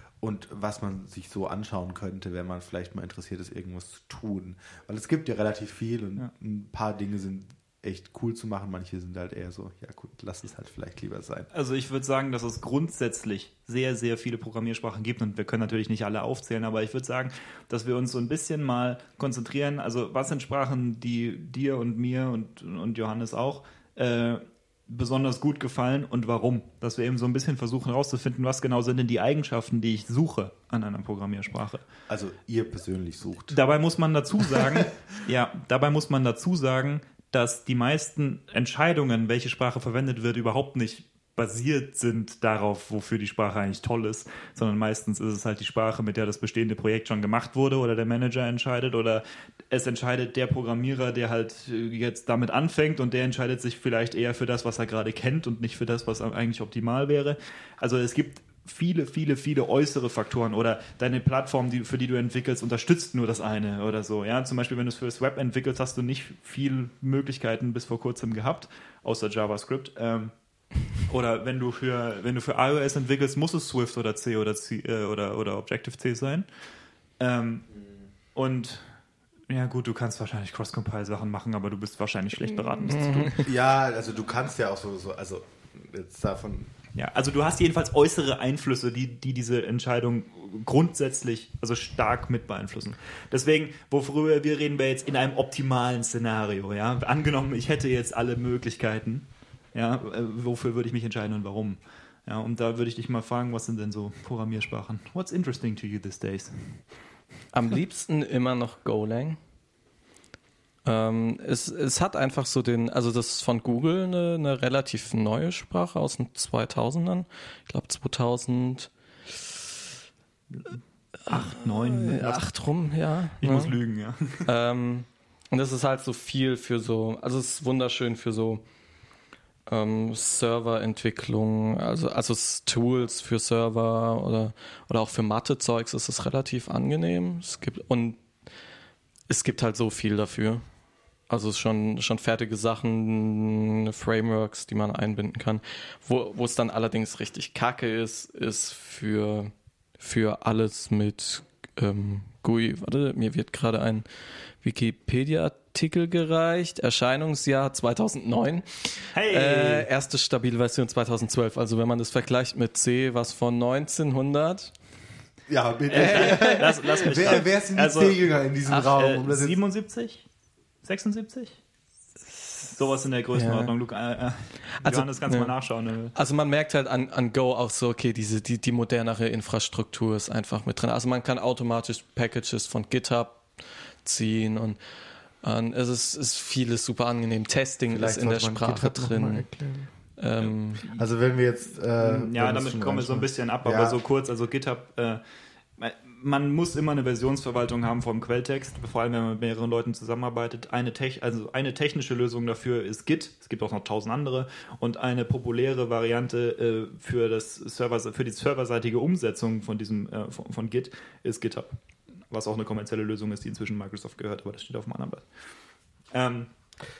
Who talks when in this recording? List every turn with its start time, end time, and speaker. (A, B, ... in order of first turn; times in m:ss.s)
0:00.2-0:11.5 A
0:11.5-0:31.8 B
0:32.1-0:33.6 A
0:33.5-1:10.3 B
1:11.0-1:16.5 B
1:17.2-1:17.7 B
1:18.3-1:18.9 B
1:19.5-1:23.5 B
1:22.9-1:23.4 C
1:23.3-1:26.7 A
1:27.0-1:46.8 B
1:47.5-1:49.4 C
1:50.8-1:59.6 C
2:00.6-2:02.4 B
2:01.3-2:03.8 C
2:03.4-2:04.5 B
2:04.4-2:08.6 C
2:09.6-2:18.2 C
2:19.3-2:20.6 C
2:21.3-2:34.0 C
2:34.6-2:44.7 C
2:39.1-2:39.9 B
2:45.5-2:49.6 A
2:45.9-2:50.2 B
2:46.0-2:47.4 C
2:50.8-2:51.6 B
2:52.6-2:56.1 B
2:53.3-2:53.7 C
2:54.8-2:55.5 C
2:56.1-3:03.5 C
3:04.0-3:04.8 C
3:05.4-3:09.5 C
3:07.9-3:09.9 A
3:10.2-3:10.8 C
3:10.4-3:11.0 B
3:10.9-3:14.0 A
3:12.0-3:15.2 B
3:15.8-3:31.7 B
3:32.3-3:35.3 B
3:36.1-3:36.5 B